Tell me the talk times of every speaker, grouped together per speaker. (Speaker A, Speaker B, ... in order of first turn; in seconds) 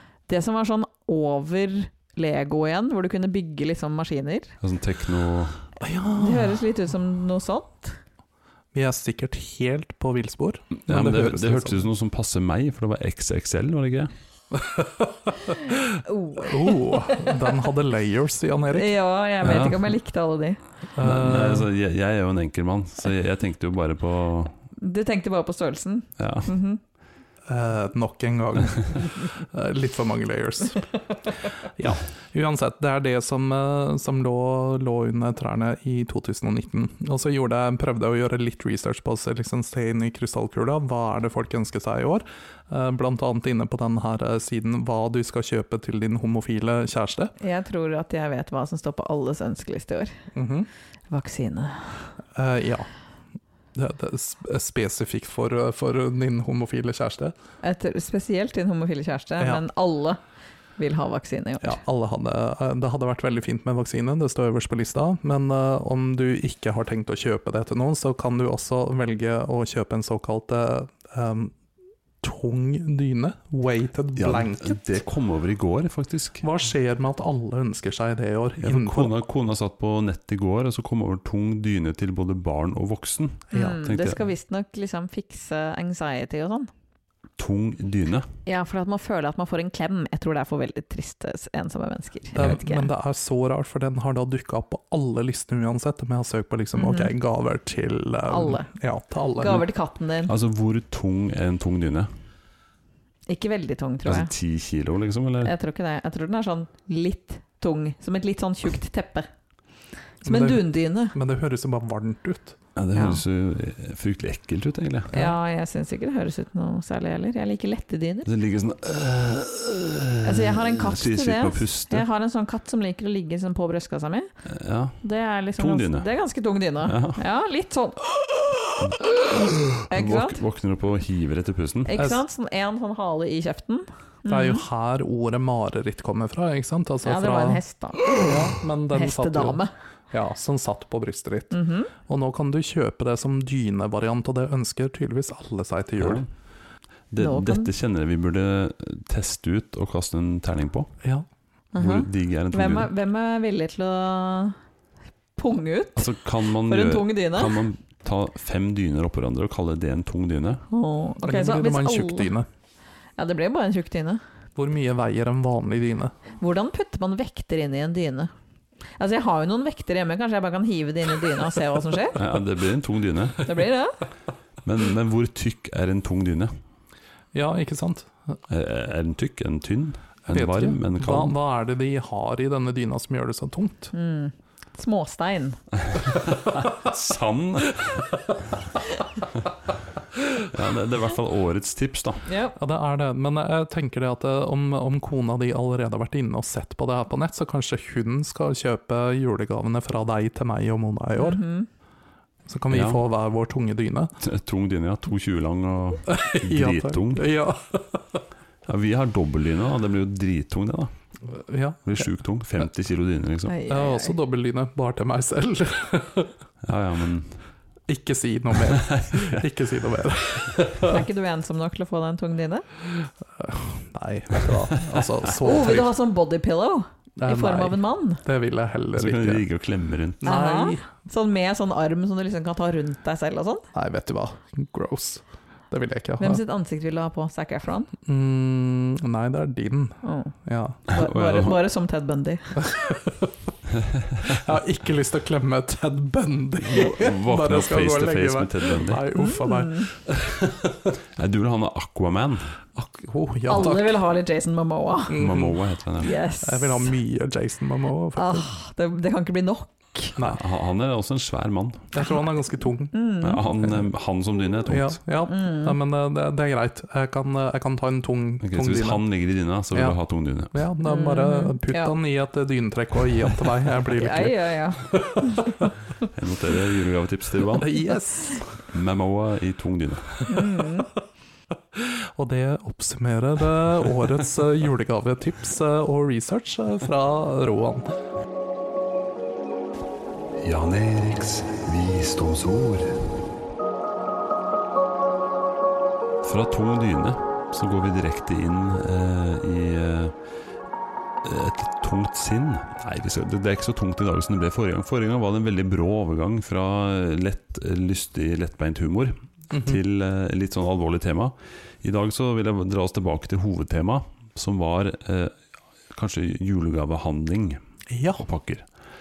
Speaker A: 0.3-4.5, 6.2-8.0, 16.0-17.3, 18.7-20.6, 24.8-26.8, 47.4-50.1, 51.1-52.1, 57.6-60.2, 60.8-61.8, 83.5-86.7, 88.5-92.9, 96.8-97.1, 98.3-98.7, 99.4-100.3, 103.3-104.3, 105.5-109.3, 110.2-111.2, 112.9-113.2, 115.1-118.3, 120.2-124.3, 125.0-128.1, 129.9-130.4, 131.9-134.6, 137.0-139.7, 141.5-141.9, 147.2-147.7, 151.7-154.6, 155.4-156.1, 156.6-157.6, 160.7-162.3, 163.2-164.2, 166.4-168.3, 169.0-172.2, 173.4-174.0, 183.9-185.6, 192.3-192.6, 201.2-201.7, 213.5-214.2, 220.8-222.7, 225.4-228.2, 230.2-233.7, 236.2-237.9, 240.0-240.3, 240.9-242.7, 249.1-249.9, 253.5-255.3, 256.0-256.9, 258.2-260.1, 262.9-263.4, 265.3-265.8, 270.9-271.9, 273.9-275.6, 280.3-280.9
Speaker B: 4.6-5.6, 10.8-14.1, 19.4-19.9, 21.0-24.5, 26.2-26.5, 74.2-76.4, 78.6-84.2, 87.4-88.3, 100.3-102.1, 104.1-105.5, 112.8-115.2, 118.2-122.0, 124.5-125.0, 125.6-126.1, 126.9-127.2, 128.8-132.0, 146.0-146.3, 147.1-150.9, 151.8-152.9, 156.0-160.6, 172.1-173.5, 174.6-176.5, 178.5-181.3, 185.9-188.3, 190.3-192.2, 202.7-203.0, 204.2-207.3, 208.7-210.9, 211.9-213.5, 216.6-217.4, 218.7-219.4, 228.9-230.2, 240.9-241.7, 243.8-244.3, 246.7-249.1, 251.2-252.6, 255.2-256.1, 260.2-261.9, 263.2-265.0, 268.4-270.6, 276.1-277.9, 278.7-280.3, 290.4-293.2, 296.2-300.2, 301.2-315.4, 315.9-317.6, 318.2-318.7
Speaker C: 5.8-6.6, 8.7-11.8, 14.6-15.1, 16.4-18.9, 21.0-21.7, 27.5-30.9, 31.8-47.3, 50.3-50.7, 52.4-52.9, 53.8-57.3, 59.4-59.6, 61.6-71.5, 72.2-74.8, 76.4-79.1, 92.3-99.7, 110.2-112.6, 134.2-139.6, 140.1-141.6, 142.1-146.2, 161.2-162.5, 164.6-166.1, 177.3-178.1, 180.3-183.9, 192.6-201.4, 202.5-204.1, 206.1-208.2, 211.3-212.0, 213.7-216.3, 217.9-221.0, 223.0-225.9, 227.2-229.4, 230.2-230.8, 233.7-236.4, 238.1-240.8, 242.6-243.3, 244.2-250.9, 252.8-253.9, 255.1-255.6, 256.4-258.5, 261.9-262.9, 264.7-269.0, 270.5-275.6, 277.5-278.6, 281.8-287.9, 309.5-309.8, 317.9-318.2